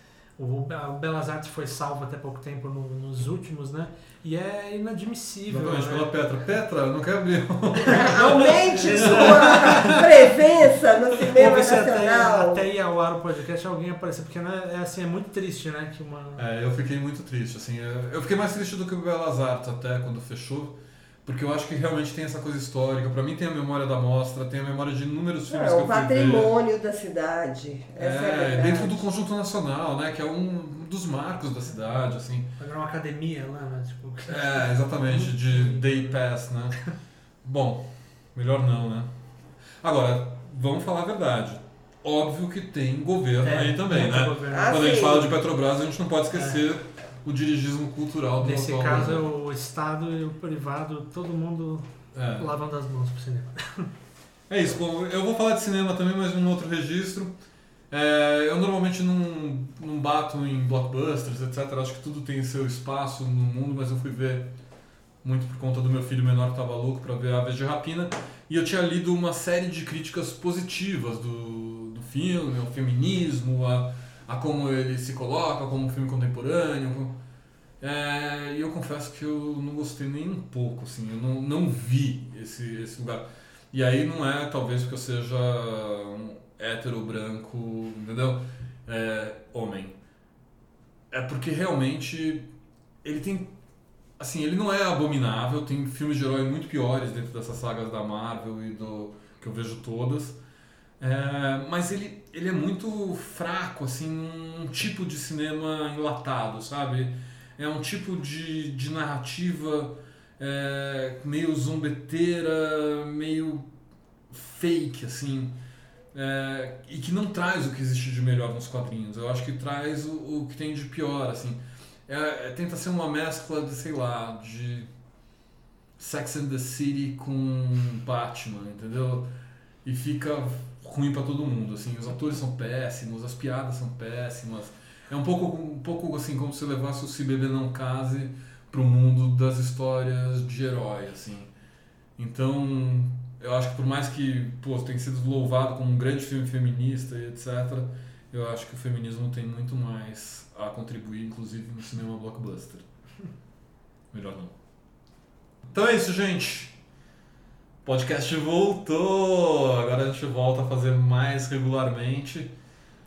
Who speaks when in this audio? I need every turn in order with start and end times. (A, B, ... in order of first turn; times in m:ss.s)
0:00.4-0:06.1 A
0:05.5-0:10.3 B
0:07.8-0:12.6 C
0:08.7-0:10.0 A
0:11.3-0:16.4 A
0:16.4-0:26.5 B
0:25.5-0:29.0 C
0:28.0-0:32.5 B
0:32.6-0:36.2 A
0:34.3-0:36.8 B
0:37.4-0:39.1 B
0:39.8-0:49.2 B
0:43.4-0:45.0 A
0:44.5-0:45.3 C
0:46.3-0:46.6 A
0:48.4-0:53.9 A
0:52.1-0:52.5 B
0:54.5-0:57.3 B
0:57.9-1:04.5 B
1:05.2-1:17.2 B
1:17.8-1:30.0 B
1:31.1-1:32.5 B
1:33.0-1:33.5 B
1:34.2-1:40.4 B
1:41.0-1:53.7 B
1:54.3-1:55.6 B
1:56.1-2:04.9 B
2:06.0-2:09.3 B
2:09.8-2:21.5 B
2:22.2-2:32.8 B
2:34.1-2:34.5 B
2:35.7-2:36.8 B
2:37.8-2:42.5 B